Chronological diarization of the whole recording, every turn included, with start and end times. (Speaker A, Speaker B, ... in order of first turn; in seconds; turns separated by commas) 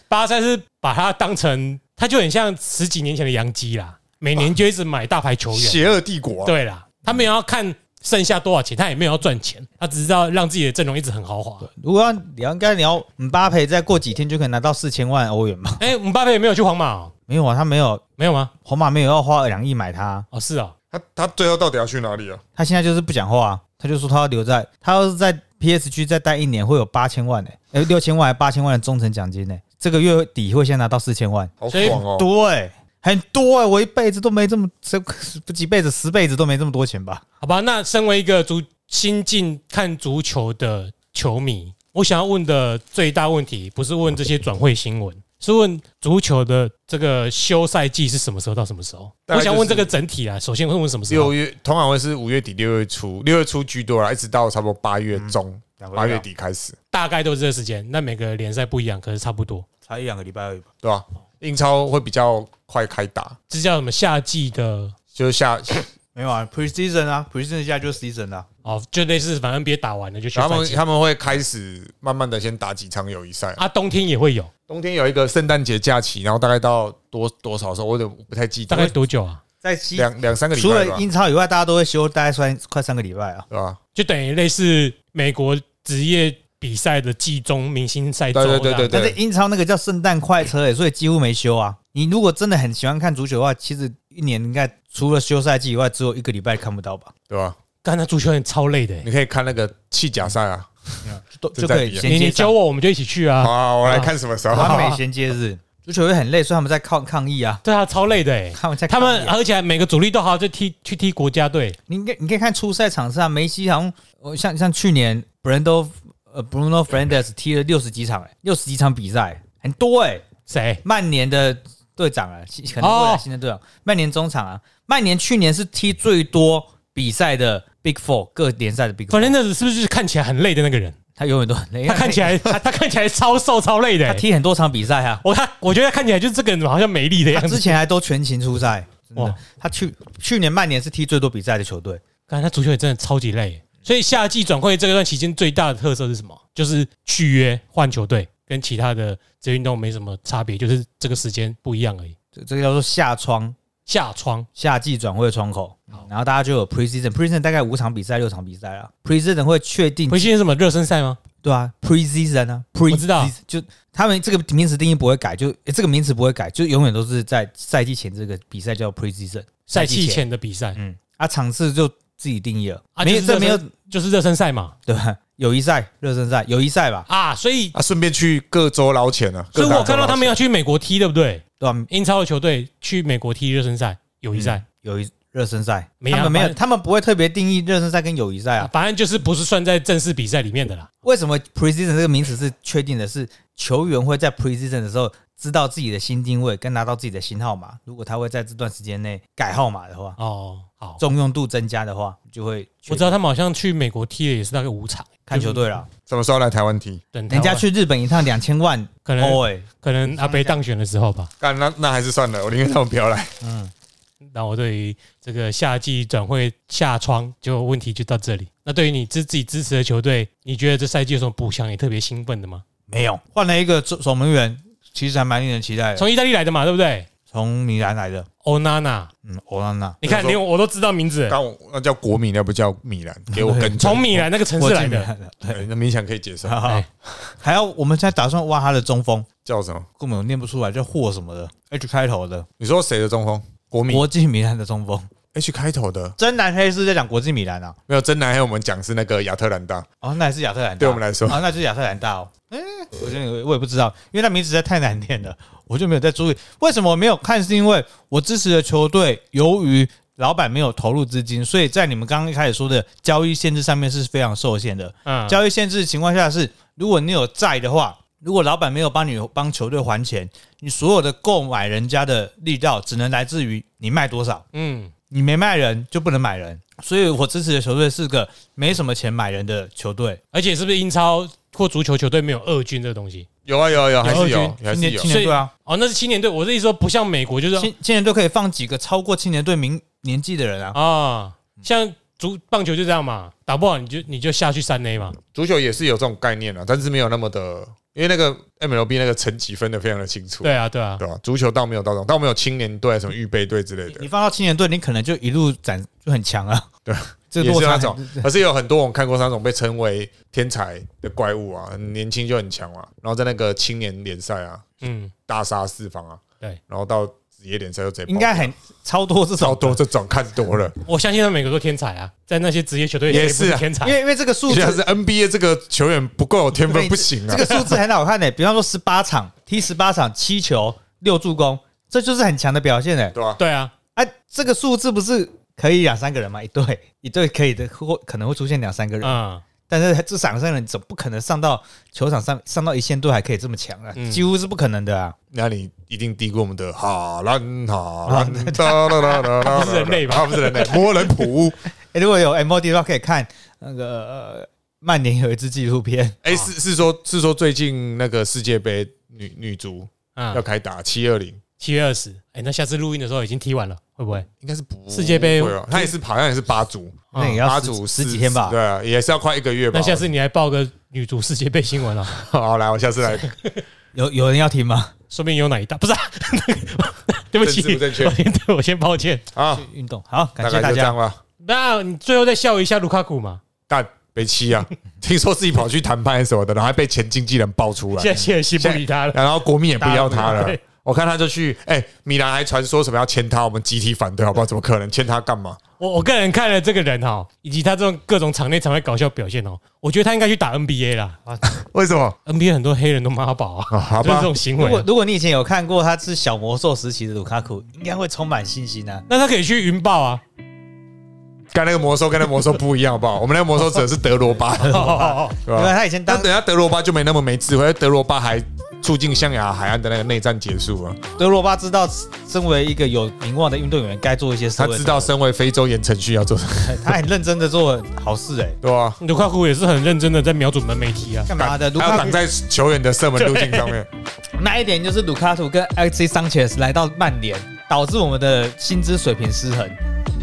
Speaker A: 0.1-5.9, Speaker B: 5.5-6.5, Speaker A: 6.4-11.7, Speaker C: 11.6-15.8, Speaker A: 15.8-17.1, Speaker C: 17.3-18.0, Speaker A: 18.2-18.5, Speaker C: 18.6-20.3, Speaker A: 20.3-20.7, Speaker B: 20.9-22.4, Speaker C: 22.6-37.2, Speaker B: 31.6-32.3, Speaker A: 31.7-32.0, Speaker A: 37.4-51.3, Speaker B: 49.3-49.9, Speaker B: 51.1-56.7, Speaker C: 55.1-56.2, Speaker A: 56.9-59.6, Speaker C: 59.9-60.6, Speaker B: 60.8-63.4, Speaker A: 63.5-64.9, Speaker B: 65.1-65.9, Speaker C: 66.1-68.5, Speaker A: 68.6-70.8, Speaker B: 70.3-73.6, Speaker A: 73.6-74.5, Speaker B: 74.7-78.9, Speaker A: 78.7-79.4, Speaker C: 79.6-83.5, Speaker B: 80.0-81.0, Speaker B: 83.5-83.8, Speaker A: 83.9-89.0, Speaker B: 88.3-89.2, Speaker C: 88.9-97.1, Speaker B: 97.3-97.6, Speaker A: 97.8-99.1, Speaker B: 99.0-102.1, Speaker C: 101.0-102.5, Speaker A: 102.0-105.0, Speaker B: 103.4-104.9, Speaker C: 104.5-107.6, Speaker A: 107.6-111.8, Speaker C: 108.5-109.3, Speaker C: 111.9-120.2, Speaker A: 120.5-120.8, Speaker C: 120.8-129.3, Speaker A: 122.8-123.2, Speaker A: 129.1-130.9, Speaker C: 131.2-132.6, Speaker A: 131.8-134.2, Speaker C: 134.0-135.2, Speaker A: 135.2-137.7, Speaker C: 137.3-142.0, Speaker A: 142.3-152.2, Speaker C: 152.3-153.6, Speaker A: 153.8-154.5, Speaker C: 154.6-160.3, Speaker A: 160.1-161.2, Speaker C: 161.4-170.2, Speaker A: 162.9-163.3, Speaker A: 169.7-170.8, Speaker C: 170.8-173.7, Speaker A: 172.9-174.7, Speaker C: 174.8-177.1, Speaker A: 177.1-177.7, Speaker B: 177.7-180.4, Speaker C: 179.6-180.1, Speaker A: 179.6-184.6, Speaker C: 181.6-181.9, Speaker C: 184.3-188.7, Speaker A: 186.0-186.6, Speaker A: 188.6-190.9, Speaker C: 191.0-200.2, Speaker A: 200.2-201.0, Speaker C: 201.0-203.2, Speaker A: 202.9-205.6, Speaker C: 205.3-205.9, Speaker B: 206.1-207.0, Speaker A: 207.1-207.7, Speaker C: 207.3-210.6, Speaker A: 209.0-211.3, Speaker B: 211.4-213.3, Speaker C: 213.4-213.7, Speaker A: 214.2-222.6, Speaker C: 222.9-226.1, Speaker A: 225.9-227.1, Speaker C: 227.3-228.3, Speaker A: 228.4-229.1, Speaker C: 229.2-230.0, Speaker A: 230.0-231.4, Speaker B: 230.0-230.4, Speaker B: 231.3-234.2, Speaker C: 233.3-234.0, Speaker A: 233.8-235.1, Speaker C: 234.6-235.6, Speaker B: 235.5-237.3, Speaker C: 236.4-236.8, Speaker C: 237.4-239.3, Speaker B: 239.4-239.9, Speaker C: 240.0-242.5, Speaker B: 242.6-244.1, Speaker C: 243.9-245.1, Speaker B: 245.3-246.2, Speaker C: 246.2-247.8, Speaker B: 247.9-249.8, Speaker C: 250.0-274.4, Speaker B: 250.8-251.4, Speaker A: 265.1-265.4, Speaker A: 274.5-274.9, Speaker C: 275.1-280.2, Speaker A: 280.3-283.3, Speaker B: 283.4-285.1, Speaker A: 284.0-287.7, Speaker C: 284.7-285.5, Speaker C: 287.6-290.8, Speaker A: 290.7-295.2, Speaker B: 295.3-304.1, Speaker A: 300.4-301.0, Speaker C: 303.9-306.7, Speaker B: 306.9-314.6, Speaker C: 307.3-308.3, Speaker A: 314.8-315.1, Speaker B: 315.3-318.5, Speaker C: 318.1-319.8, Speaker B: 319.4-320.7, Speaker A: 320.8-324.0, Speaker B: 323.1-323.7, Speaker C: 323.8-324.8, Speaker B: 324.5-327.5, Speaker C: 326.7-333.1, Speaker A: 327.3-327.7, Speaker B: 333.1-333.4, Speaker A: 333.4-333.7, Speaker C: 333.9-339.2, Speaker A: 339.0-339.4, Speaker C: 339.7-345.1, Speaker A: 343.9-344.2, Speaker B: 345.3-351.6, Speaker C: 348.1-349.4, Speaker A: 349.4-350.7, Speaker C: 350.6-351.3, Speaker C: 351.8-356.2, Speaker B: 356.2-361.4, Speaker A: 360.1-360.4, Speaker A: 361.6-364.3, Speaker B: 364.4-370.1, Speaker A: 364.9-365.9, Speaker A: 367.1-367.4, Speaker C: 367.1-368.6, Speaker A: 369.7-372.1, Speaker B: 372.1-373.3, Speaker C: 373.9-374.9, Speaker A: 375.1-379.2, Speaker B: 377.4-378.2, Speaker B: 379.3-379.6, Speaker C: 379.5-380.9, Speaker B: 380.4-381.2, Speaker A: 381.4-383.4, Speaker B: 383.7-395.6, Speaker A: 387.9-389.2, Speaker C: 389.8-390.6, Speaker A: 390.1-390.6, Speaker A: 395.8-401.2, Speaker B: 401.6-402.2, Speaker A: 402.2-404.9, Speaker B: 403.7-404.3, Speaker C: 404.6-409.1, Speaker A: 409.1-410.2, Speaker B: 411.5-421.0, Speaker A: 414.6-415.4, Speaker C: 414.6-416.3, Speaker C: 421.2-425.1, Speaker B: 424.6-427.0, Speaker C: 426.6-428.6, Speaker B: 428.6-429.0, Speaker A: 429.0-431.3, Speaker C: 431.3-432.2, Speaker B: 431.4-433.9, Speaker A: 433.2-433.8, Speaker C: 434.4-439.8